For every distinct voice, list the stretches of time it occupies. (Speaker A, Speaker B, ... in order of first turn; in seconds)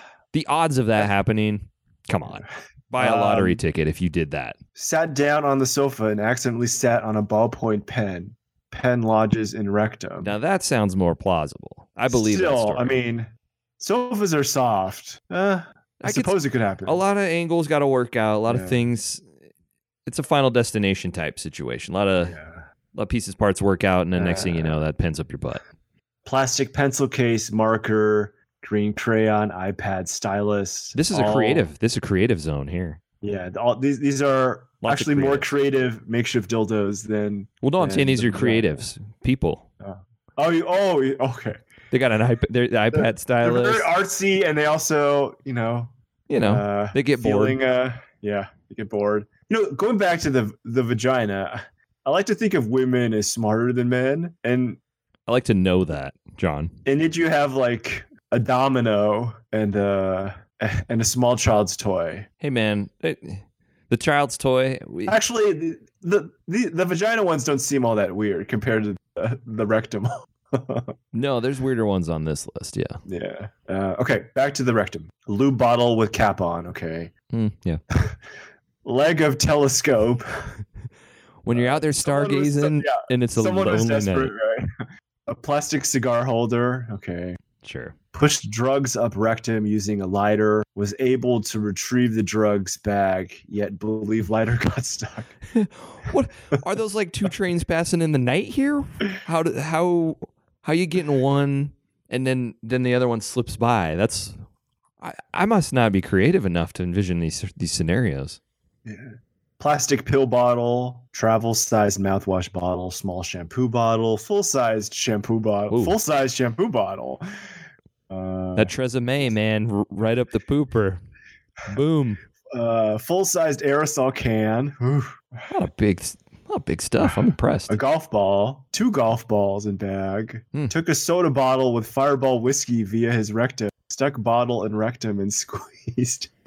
Speaker A: 0.3-4.6, 10.2-13.0, 16.0-19.3, 20.1-22.4, 22.9-25.6, 30.9-33.0, 34.8-35.5, 37.6-39.6, 41.9-43.9, 46.3-47.6, 55.3-56.7, 62.4-65.2, 71.1-73.0, 77.3-77.8, 81.4-84.3, 87.6-88.0, 95.5-104.4, 105.0-108.4, 115.7-116.0, 118.6-121.0, 121.7-122.2, 125.5-127.8
Speaker B: 3.0-3.6, 4.8-10.3, 12.1-17.0, 18.5-18.9, 22.2-22.6, 24.2-24.8, 26.2-31.7, 33.2-38.9, 39.8-41.6, 42.9-54.8, 56.9-62.3, 65.1-70.9, 73.1-77.1, 77.9-78.2, 78.8-80.5, 81.5-87.4, 88.1-95.3, 108.8-117.2, 118.1-118.7, 122.5-125.5, 127.0-136.3